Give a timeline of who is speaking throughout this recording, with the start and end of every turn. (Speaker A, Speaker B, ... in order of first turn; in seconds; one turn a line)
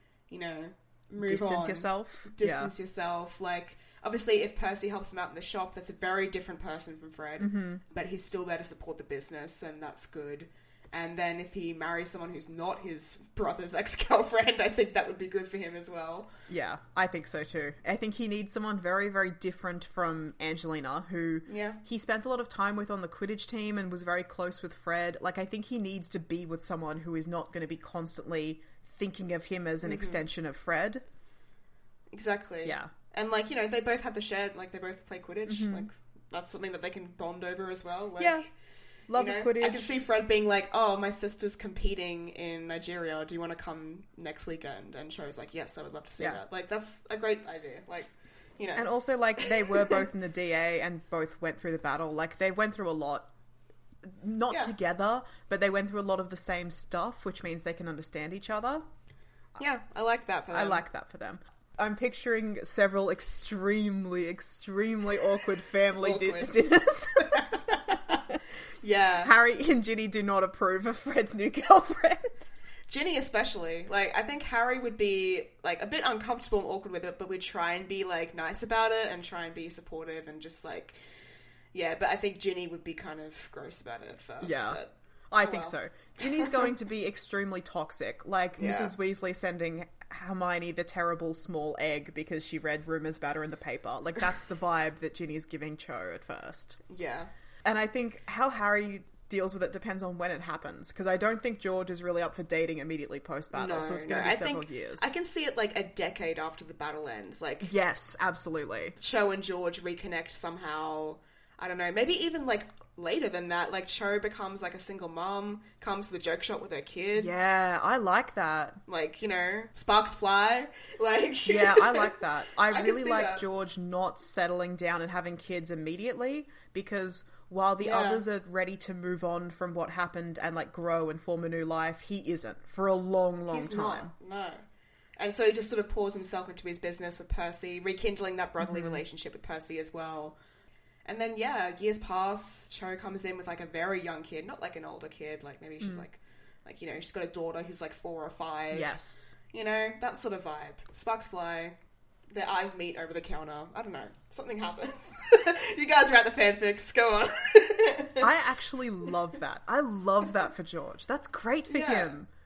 Speaker A: 0.3-16.3
Speaker B: 1.2-2.7
Speaker B: 7.4-7.8
Speaker B: 16.5-31.0
Speaker A: 21.5-21.8
Speaker A: 29.8-30.2
Speaker A: 32.1-38.5
Speaker B: 32.6-32.9
Speaker B: 35.5-35.9
Speaker B: 38.2-38.5
Speaker B: 39.1-39.9
Speaker A: 39.2-48.9
Speaker B: 48.8-53.3
Speaker A: 49.4-50.0
Speaker B: 54.0-58.9
Speaker A: 59.6-60.8
Speaker B: 60.5-68.0
Speaker A: 66.0-66.5
Speaker A: 67.2-68.2
Speaker A: 68.8-69.3
Speaker B: 69.2-72.5
Speaker A: 72.9-81.0
Speaker A: 81.7-85.8
Speaker B: 84.4-96.8
Speaker A: 88.6-88.9
Speaker A: 96.9-97.3
Speaker B: 97.7-105.1
Speaker A: 103.5-107.7
Speaker B: 107.6-109.0
Speaker A: 109.0-117.3
Speaker B: 117.2-118.8
Speaker A: 118.9-122.2
Speaker B: 121.5-134.1
Speaker A: 122.7-123.4
Speaker A: 127.8-128.2
Speaker A: 133.5-134.6
Speaker A: 135.2-140.4
Speaker B: 138.6-139.0
Speaker A: 141.1-148.9
Speaker B: 148.7-149.3
Speaker A: 149.5-151.8
Speaker A: 152.3-158.3
Speaker B: 158.2-162.3
Speaker A: 161.7-162.2